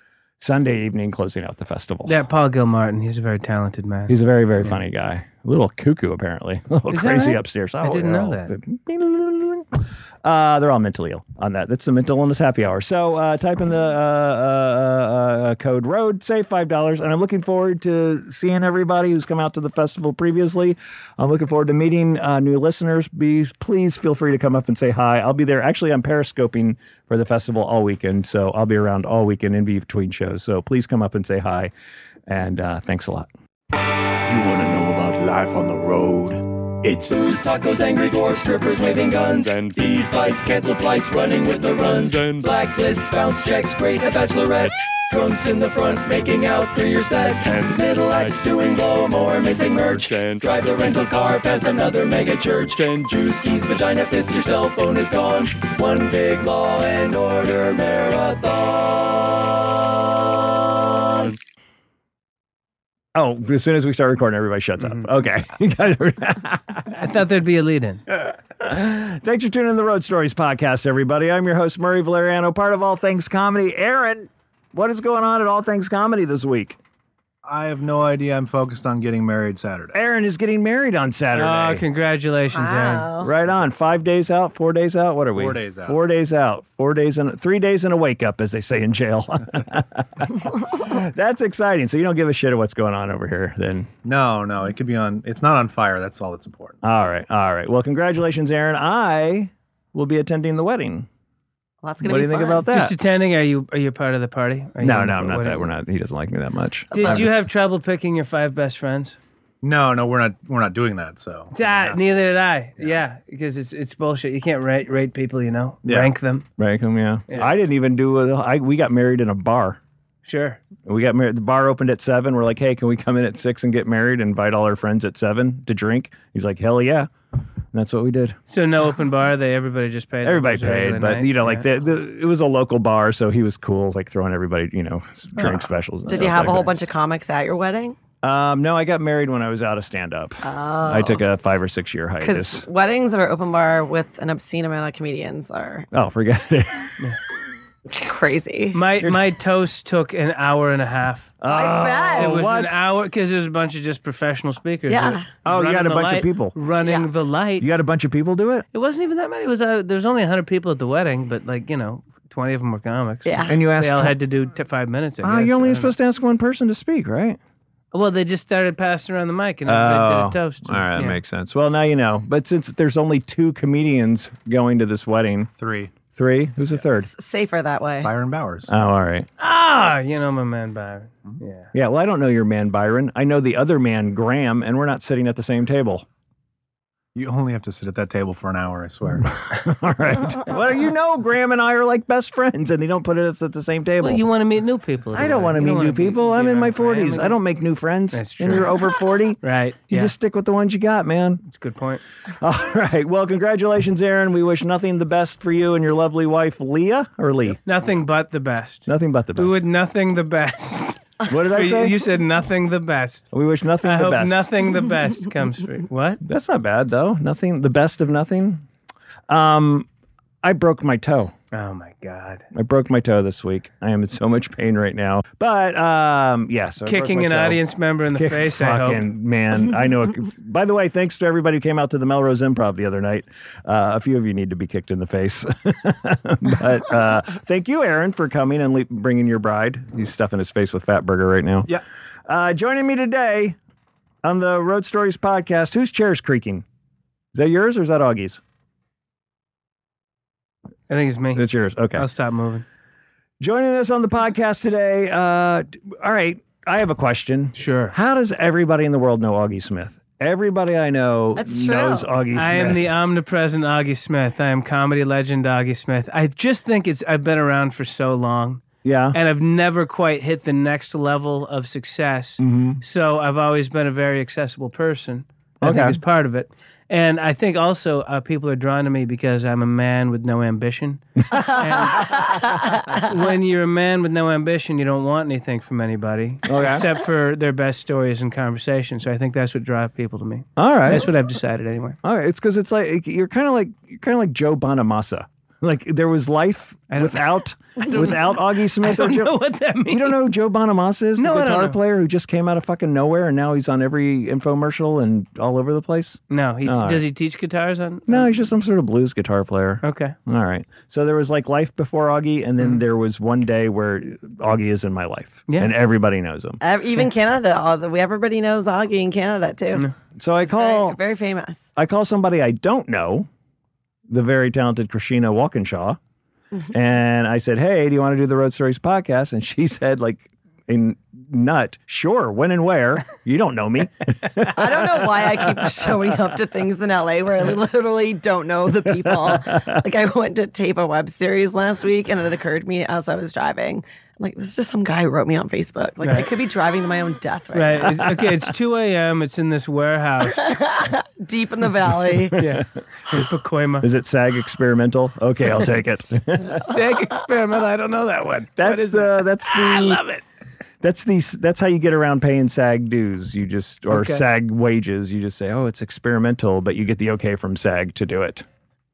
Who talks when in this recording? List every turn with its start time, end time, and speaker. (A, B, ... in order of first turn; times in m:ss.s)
0:00.4-0:02.2 A
0:02.1-0:04.8 B
0:04.1-0:31.7 A
0:06.9-0:08.5 B
0:32.3-0:33.3 A
0:34.3-0:59.6 C
1:00.8-1:01.3 C
1:03.2-1:06.9 A
1:06.9-1:08.0 B
1:08.1-1:16.8 A
1:17.5-1:20.0 D
1:19.9-1:21.8 A
1:21.4-1:23.1 B
1:22.5-1:23.3 E
1:23.2-1:33.9 A
1:25.3-1:26.0 D
1:34.0-1:36.8 D
1:36.8-1:41.1 A
1:41.8-1:42.7 E
1:42.0-1:43.0 A
1:42.7-1:45.7 B
1:44.8-1:47.3 A
1:46.9-1:49.2 B
1:49.6-1:52.0 D
1:51.6-1:56.4 B
1:55.8-1:56.1 D
1:56.6-1:59.8 A
2:00.2-2:00.6 B
2:00.8-2:07.1 A
2:07.7-2:08.4 A
2:08.5-2:11.6 B
2:10.2-2:16.7 A
2:16.1-2:18.0 E
2:18.2-2:22.7 A
2:20.4-2:21.2 E
2:22.2-2:25.9 E
2:25.9-2:27.0 A
2:27.9-2:28.8 E
2:28.7-2:31.4 B
2:29.0-2:29.2 A
2:31.4-2:32.8 A
2:31.5-2:32.4 E
2:32.2-2:37.7 B
2:34.9-2:35.3 E
2:35.4-2:36.6 A
2:36.8-2:37.1 E
2:37.6-2:38.6 A
2:38.7-2:45.9 B
2:43.2-2:43.6 E
2:43.5-2:44.2 A
2:45.2-2:47.4 A
2:47.9-2:51.2 B
2:49.7-2:55.5 A
2:55.6-2:55.9 D
2:56.1-2:57.1 A
2:57.0-2:58.1 E
2:58.0-2:58.7 D
2:58.7-2:59.3 A
2:59.4-3:01.7 B
3:01.7-3:06.0 A
3:07.2-3:09.4 D
3:09.2-3:14.2 A
3:14.0-3:17.4 B
3:15.1-3:21.4 A
3:18.1-3:18.9 B
3:19.4-3:20.1 B
3:21.5-3:22.0 B
3:22.4-3:27.6 A
3:27.6-3:33.3 B
3:28.9-3:29.6 A
3:31.3-3:32.0 A
3:33.3-3:34.4 A
3:33.8-3:36.2 B
3:36.2-3:38.6 A
3:39.3-3:39.9 A
3:40.4-3:41.3 A
3:41.5-3:42.4 B
3:42.5-3:47.6 A
3:46.8-3:49.0 B
3:48.1-4:03.6 A
4:04.2-4:06.6 A
4:07.3-4:08.4 A
4:10.9-4:12.6 B
4:11.4-4:12.0 A
4:13.4-4:22.9 A
4:17.6-4:18.0 B
4:21.4-4:22.1 E
4:22.3-4:52.0 B
4:28.8-4:29.2 A
4:32.4-4:32.8 A
4:35.6-4:36.0 A
4:41.3-4:43.1 E
4:46.4-4:46.9 A
4:50.6-4:51.1 A
4:52.0-4:59.4 A
4:56.9-5:00.2 B
4:59.9-5:07.0 A
5:01.2-5:01.8 B
5:06.3-5:08.3 B
5:08.1-5:16.6 A
5:09.8-5:10.2 B
5:16.6-5:19.9 E
5:20.2-5:21.0 A
5:20.4-5:21.6 E
5:21.8-5:23.3 A
5:24.1-5:26.0 A
5:26.7-5:36.1 A
5:34.5-5:48.1 E
5:38.8-5:39.8 A
5:46.0-5:46.3 B
5:47.5-5:50.5 B
5:50.3-5:52.4 E
5:52.4-5:53.9 B
5:52.4-5:53.2 A
5:53.8-5:56.8 A
5:56.5-6:00.2 B
5:58.6-6:00.0 A
6:00.8-6:08.5 A
6:03.9-6:04.2 B